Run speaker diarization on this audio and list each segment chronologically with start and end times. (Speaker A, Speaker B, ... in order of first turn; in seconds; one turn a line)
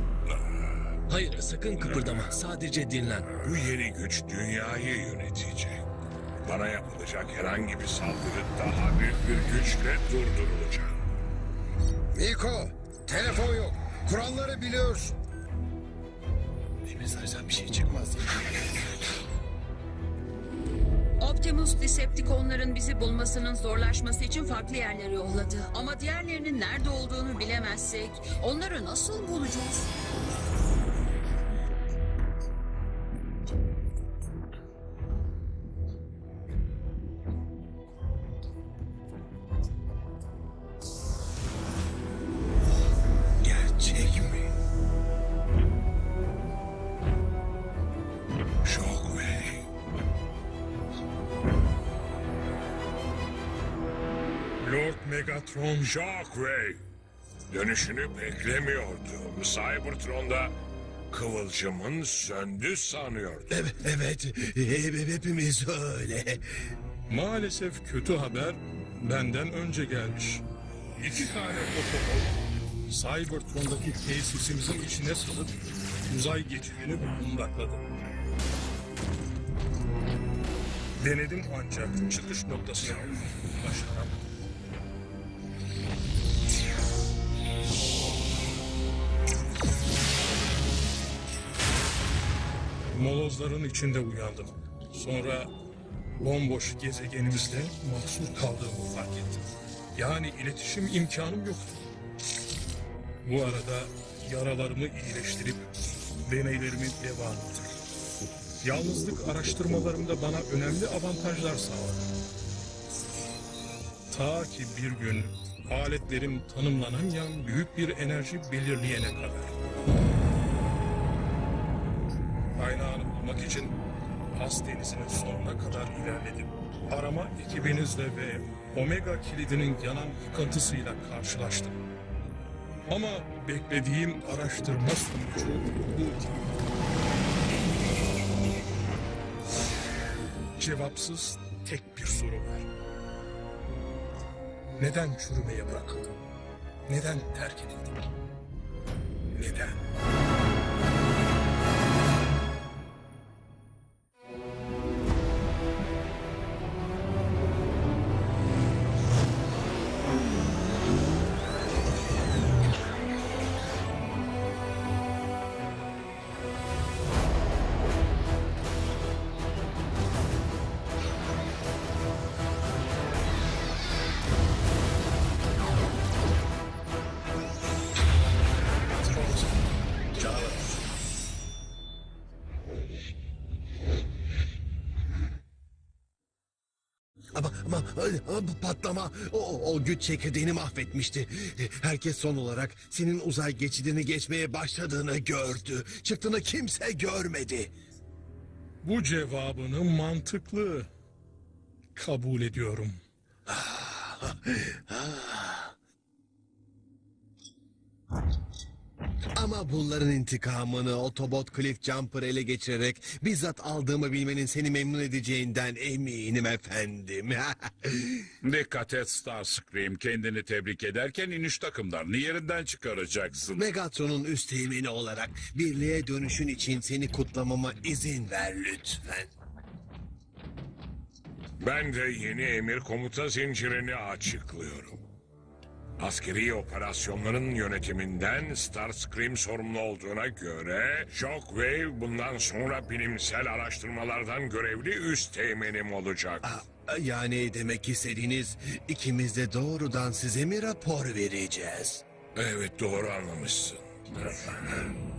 Speaker A: 1.1-3.4
Speaker B: 3.4-5.9
Speaker B: 6.4-10.9
Speaker C: 12.2-15.2
Speaker D: 16.9-18.2
Speaker E: 21.2-29.9
Speaker D: 43.4-44.5
Speaker B: 48.6-49.6
Speaker F: 54.6-55.9
Speaker B: 55.8-56.8
Speaker B: 57.5-60.5
Speaker B: 61.1-63.5
Speaker D: 63.5-66.5
Speaker F: 67.1-70.4
Speaker F: 71.0-72.4
Speaker F: 72.9-75.5
Speaker F: 76.1-77.8
Speaker F: 81.0-84.2
Speaker F: 92.9-95.5
Speaker F: 96.2-99.4
Speaker F: 100.0-101.8
Speaker F: 103.2-105.7
Speaker F: 106.3-107.7
Speaker F: 108.6-112.1
Speaker F: 114.1-119.5
Speaker F: 122.6-123.8
Speaker F: 124.3-131.8
Speaker F: 132.9-136.4
Speaker F: 140.6-142.7
Speaker F: 144.8-146.2
Speaker F: 146.9-147.9
Speaker F: 149.3-149.8
Speaker F: 179.0-179.6
Speaker D: 187.3-197.7
Speaker F: 198.8-200.9
Speaker F: 201.9-203.0
Speaker D: 203.5-205.8
Speaker D: 209.3-218.3
Speaker G: 218.4-223.6
Speaker D: 223.6-229.3
Speaker B: 231.6-235.0
Speaker B: 236.0-246.4
Speaker D: 246.4-252.0
Speaker B: 252.4-253.9